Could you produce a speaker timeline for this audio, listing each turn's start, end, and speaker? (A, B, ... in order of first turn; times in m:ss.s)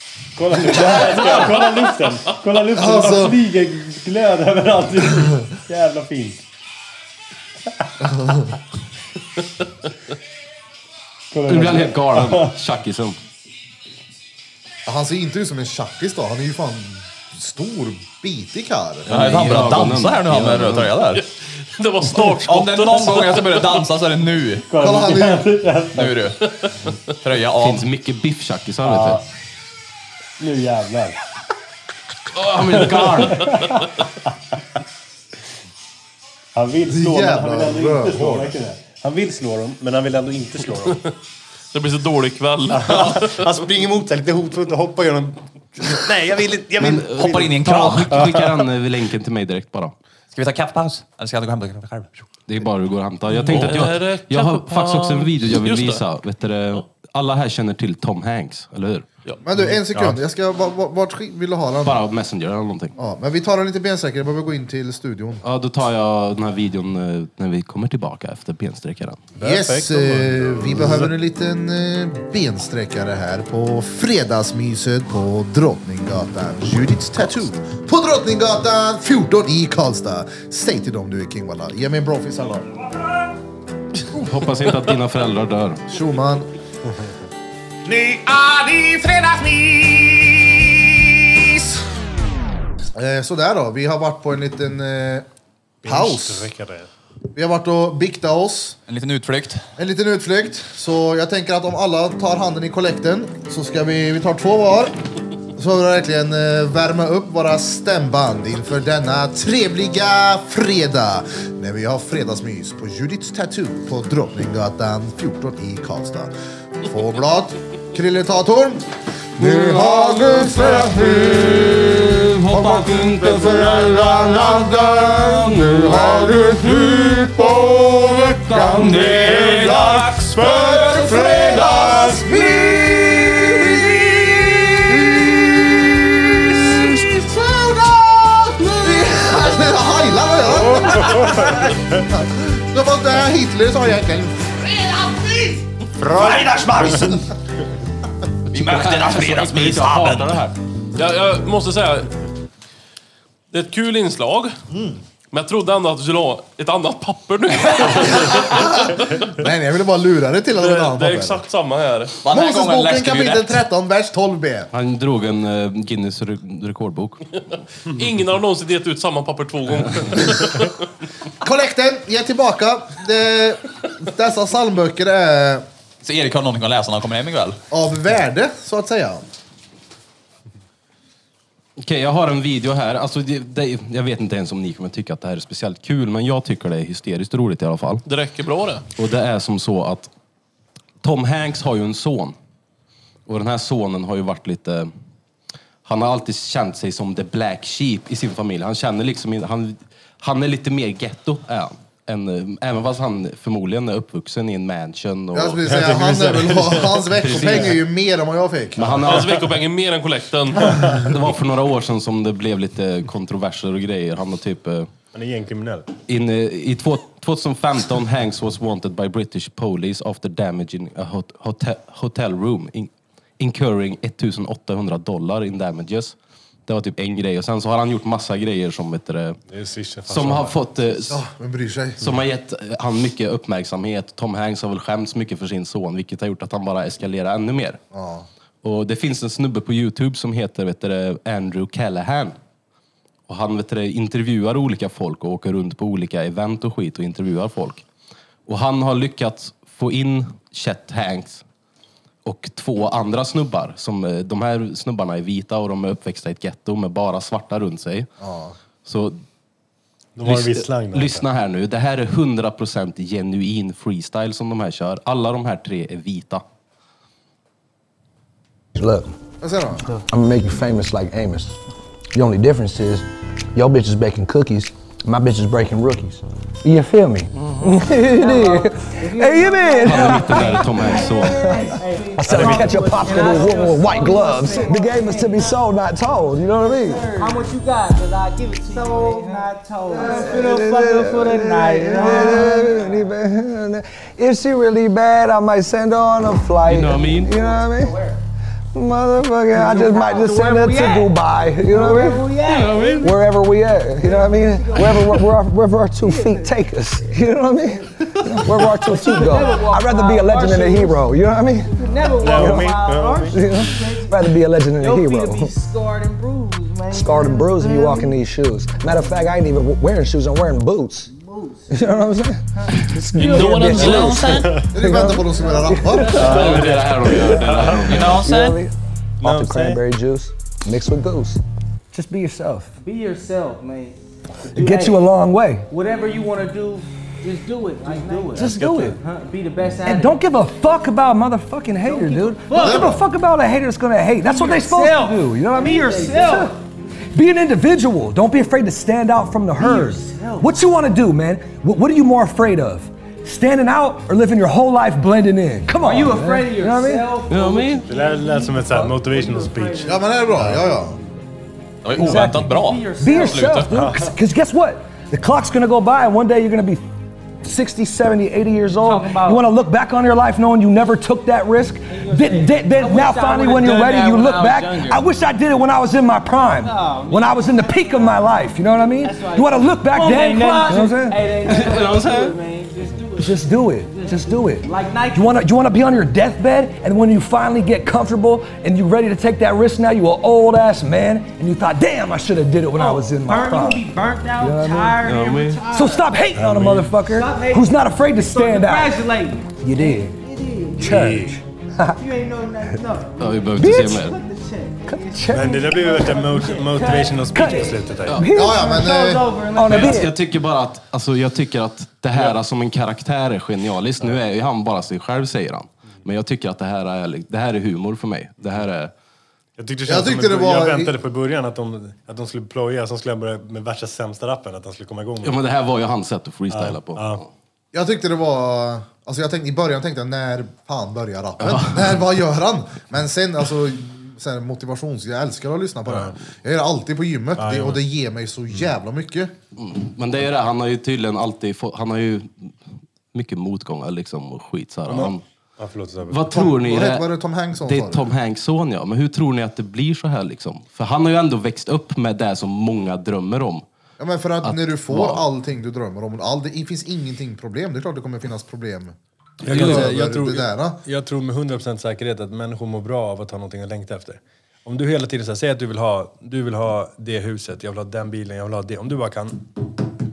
0:00.4-0:06.4 A
0:00.7-0:01.3 B
0:02.7-0:03.4 C
0:08.0-0:08.5 C
0:11.3-0:12.5 A
0:11.4-0:13.2 D
0:14.8-0:19.1 C
0:19.0-0:20.9 D
0:19.1-0:21.2 B
0:21.2-0:23.8 E
0:22.4-0:24.7 B
0:24.7-0:26.2 A
0:24.8-0:25.5 C
0:25.9-0:27.8 B
0:27.6-0:29.2 D
0:28.8-0:29.2 A
0:30.4-0:31.2 A
0:32.4-0:33.5 D
0:32.6-0:34.3 A
0:32.8-0:33.8 E
0:36.5-0:41.0 A
0:36.9-0:38.5 C
0:41.7-0:43.5 E
0:42.7-0:48.6 A
0:46.8-0:49.9 D
0:46.9-0:48.2 B
0:50.3-0:52.2 B
0:52.5-0:59.1 D
0:53.3-0:56.0 E
0:53.5-0:53.8 B
0:59.4-1:02.0 C
0:59.6-1:00.2 A
1:01.8-1:03.0 D
1:03.0-1:05.4 C
1:05.4-1:09.2 D
1:09.3-1:11.1 A
1:09.4-1:22.7 C
1:24.1-1:25.8 D
1:25.9-1:26.5 C
1:29.1-1:29.7 C
1:32.9-1:35.3 C
1:35.8-1:36.9 A
1:35.8-1:36.5 C
1:37.3-1:38.8 C
1:38.9-1:39.6 B
1:39.8-1:44.9 C
1:45.5-2:01.3 C
1:59.4-2:09.8 D
2:02.5-2:04.1 C
2:03.8-2:13.2 B
2:05.9-2:06.2 C
2:11.1-2:15.4 C
2:16.2-2:25.5 C
2:20.6-2:20.9 B
2:26.0-2:27.3 B
2:28.5-2:30.4 B
2:28.5-2:30.6 D
2:30.9-2:32.1 E
2:33.5-2:34.6 E
2:34.7-2:35.0 C
2:35.3-2:39.2 E
2:38.1-2:41.4 C
2:40.6-2:42.2 E
2:42.2-2:43.6 B
2:42.3-2:44.7 C
2:44.7-2:47.6 D
2:47.9-2:50.8 E
2:51.4-2:55.6 C
2:56.0-2:57.6 B
2:57.7-2:59.2 C
3:01.8-3:08.0 D
3:08.0-3:08.8 E
3:09.0-3:10.1 D
3:11.0-3:12.4 D
3:13.2-3:14.9 D
3:15.8-3:25.9 D
3:25.3-3:29.0 C
3:25.7-3:27.7 A
3:27.2-3:27.8 D
3:28.8-3:29.3 D
3:29.0-3:31.0 E
3:31.0-3:34.9 D
3:35.1-3:35.9 A
3:36.1-3:46.2 D
3:46.7-3:49.4 D
3:49.5-3:50.6 A
3:50.1-3:51.2 D
3:51.1-3:52.0 C
3:52.0-3:57.8 D
3:57.9-3:58.3 C
3:58.6-4:02.4 D
4:03.3-4:07.8 D
4:08.4-4:11.4 D
4:12.2-4:18.1 D
4:18.2-4:18.6 C
4:18.8-4:19.2 D
4:20.2-4:21.2 A
4:20.2-4:26.4 D
4:28.7-4:29.1 F
4:29.4-4:29.9 C
4:29.9-4:31.6 F
4:32.1-4:47.4 F
4:37.7-4:45.7 G
4:39.8-4:41.4 D
4:46.6-4:53.1 G
4:48.7-4:58.0 F
4:56.6-4:57.3 D
4:56.8-4:58.2 G
4:58.7-5:02.3 F
4:59.5-5:03.2 G
5:02.4-5:03.1 D
5:03.0-5:15.5 F
5:04.0-5:05.3 G
5:06.0-5:07.0 G
5:08.2-5:11.0 G
5:11.7-5:18.2 G
5:12.2-5:13.4 A
5:16.9-5:21.1 F
5:21.1-5:21.7 G
5:21.7-5:32.7 F
5:23.1-5:24.3 E
5:23.2-5:24.2 G
5:23.6-5:24.5 B
5:24.4-5:24.7 A
5:24.7-5:26.3 C
5:26.2-5:28.3 D
5:26.2-5:27.9 A
5:27.9-5:28.6 B
5:29.2-5:29.8 A
5:32.8-5:35.0 G
5:34.5-5:35.7 F
5:35.7-5:40.3 G
5:37.8-5:39.0 F
5:39.8-5:46.6 F
5:41.8-5:43.0 G
5:42.6-5:43.0 C
5:44.2-5:46.6 G
5:47.1-5:57.1 F
5:49.6-5:50.6 G
5:55.8-6:01.1 G
5:57.3-5:57.9 D
5:57.9-6:00.7 A
5:59.8-6:01.0 C
6:01.8-6:03.7 B
6:01.9-6:06.8 F
6:02.0-6:03.6 G
6:03.7-6:04.1 A
6:07.4-6:21.2 F
6:08.8-6:09.4 G
6:11.9-6:15.1 G
6:16.6-6:18.4 G
6:19.0-6:25.5 G
6:21.4-6:22.4 D
6:23.2-6:33.8 F
6:32.7-6:36.1 G
6:34.4-6:35.0 F
6:35.0-6:35.6 D
6:35.7-6:39.0 F
6:36.3-6:37.0 A
6:37.1-6:41.4 G
6:39.6-6:40.2 F
6:40.8-6:42.0 F
6:40.9-6:41.2 A
6:41.9-6:50.1 G
6:43.2-6:44.2 D
6:43.6-6:44.0 F
6:44.8-6:50.1 F
6:45.3-6:48.2 A
6:48.3-6:49.2 C
6:49.6-6:58.9 D
6:59.6-7:05.4 A
6:59.9-7:00.9 C
7:05.2-7:07.3 D
7:06.5-7:07.2 A
7:07.7-7:19.3 C
7:11.4-7:12.0 D
7:15.9-7:16.2 A
7:17.4-7:17.8 A
7:19.6-7:25.2 D
7:24.9-7:26.4 A
7:26.1-7:27.1 D
7:26.3-7:28.1 C
7:27.6-7:33.6 D
7:34.0-7:40.8 C
7:34.4-7:35.2 D
7:39.4-7:49.6 A
7:39.4-7:39.8 D